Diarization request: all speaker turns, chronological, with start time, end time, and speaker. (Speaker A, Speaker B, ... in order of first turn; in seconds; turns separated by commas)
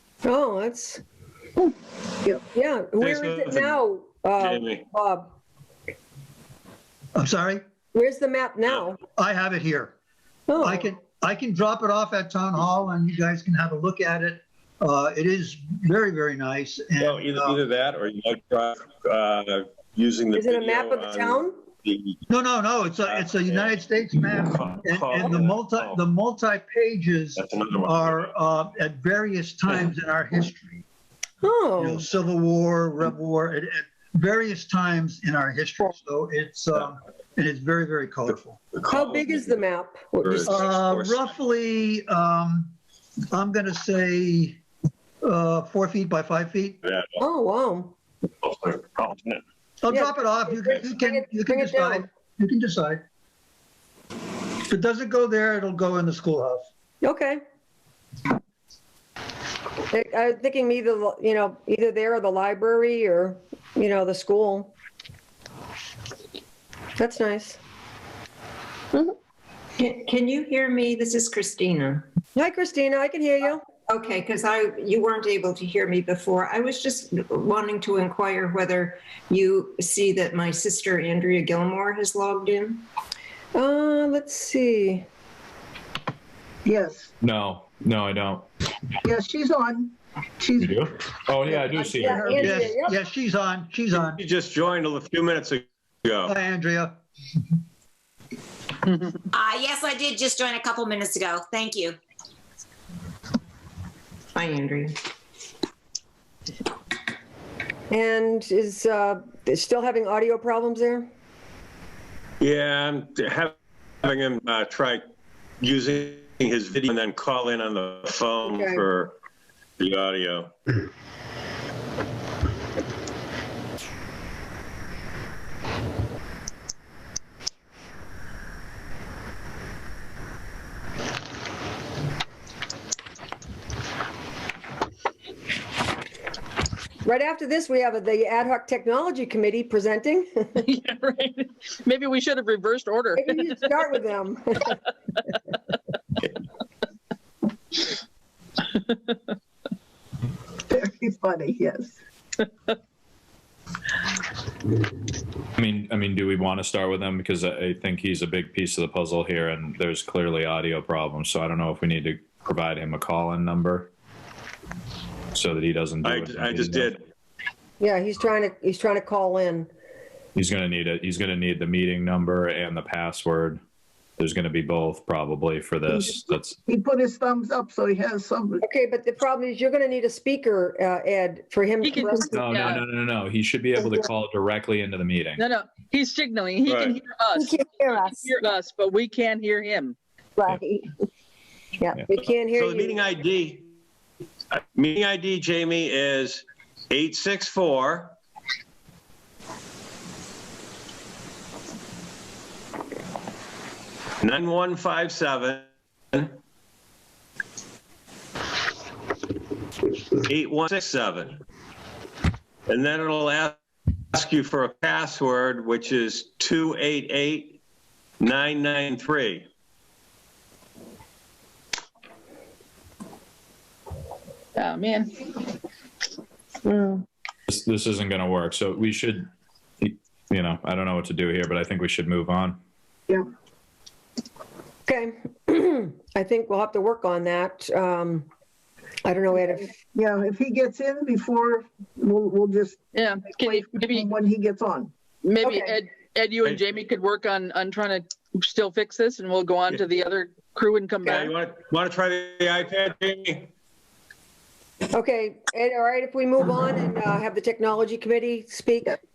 Speaker A: 0.2-1.0, Speaker A: 2.5-5.3, Speaker B: 3.0-3.8, Speaker B: 4.4-4.8, Speaker C: 7.2-7.6, Speaker A: 7.9-9.0, Speaker C: 9.2-10.0, Speaker A: 10.5-10.9, Speaker C: 10.6-17.6, Speaker B: 17.0-22.2, Speaker A: 20.3-21.6, Speaker C: 22.3-30.8, Speaker B: 23.0-26.0, Speaker B: 27.4-28.3, Speaker A: 31.4-32.0, Speaker C: 31.8-38.6, Speaker B: 38.7-39.6, Speaker A: 38.9-40.7, Speaker B: 40.2-41.3, Speaker C: 40.5-42.8, Speaker C: 43.3-44.6, Speaker C: 45.2-46.8, Speaker B: 46.8-47.2, Speaker A: 47.2-48.0, Speaker B: 48.4-49.4, Speaker C: 49.8-53.0, Speaker A: 49.9-52.1, Speaker C: 54.7-56.6, Speaker A: 57.0-57.4, Speaker A: 59.9-64.7, Speaker A: 67.0-67.6, Speaker D: 69.8-72.1, Speaker A: 72.4-73.7, Speaker D: 73.9-82.9, Speaker A: 83.5-85.1, Speaker E: 86.7-87.1, Speaker F: 87.2-88.5, Speaker E: 89.0-90.8, Speaker F: 90.6-92.3, Speaker E: 91.6-92.7, Speaker A: 92.0-93.0, Speaker C: 92.4-94.2, Speaker B: 93.9-96.4, Speaker C: 96.3-97.0, Speaker G: 99.3-102.0, Speaker D: 104.3-105.0, Speaker A: 107.9-111.1, Speaker B: 112.4-115.0, Speaker B: 115.6-119.2, Speaker A: 118.5-118.8, Speaker B: 119.8-120.5, Speaker A: 137.0-140.7, Speaker H: 140.6-143.4, Speaker A: 143.2-144.8, Speaker E: 150.7-152.0, Speaker F: 155.6-163.9, Speaker F: 165.3-166.9, Speaker B: 166.0-167.0, Speaker A: 167.8-169.7, Speaker F: 170.3-173.6, Speaker F: 174.2-176.6, Speaker E: 175.9-178.6, Speaker A: 178.6-182.4, Speaker H: 181.8-182.8, Speaker F: 182.3-185.4, Speaker A: 183.8-184.1, Speaker H: 185.4-187.6, Speaker B: 186.7-187.0, Speaker A: 187.3-188.4, Speaker H: 188.2-190.0, Speaker A: 190.4-190.9, Speaker A: 191.8-193.0, Speaker B: 192.5-193.6, Speaker B: 194.5-198.2, Speaker B: 204.2-206.4, Speaker B: 210.2-211.4, Speaker B: 212.7-213.6, Speaker B: 214.1-217.6, Speaker B: 218.2-219.5, Speaker H: 224.6-225.2, Speaker A: 226.7-227.0, Speaker F: 227.5-229.3, Speaker F: 229.8-232.6, Speaker A: 234.9-238.3, Speaker A: 239.1-239.7, Speaker E: 239.9-242.8, Speaker H: 242.9-244.1, Speaker E: 243.3-244.9, Speaker H: 245.2-251.3, Speaker A: 245.4-245.8, Speaker B: 251.2-253.5, Speaker A: 254.9-259.0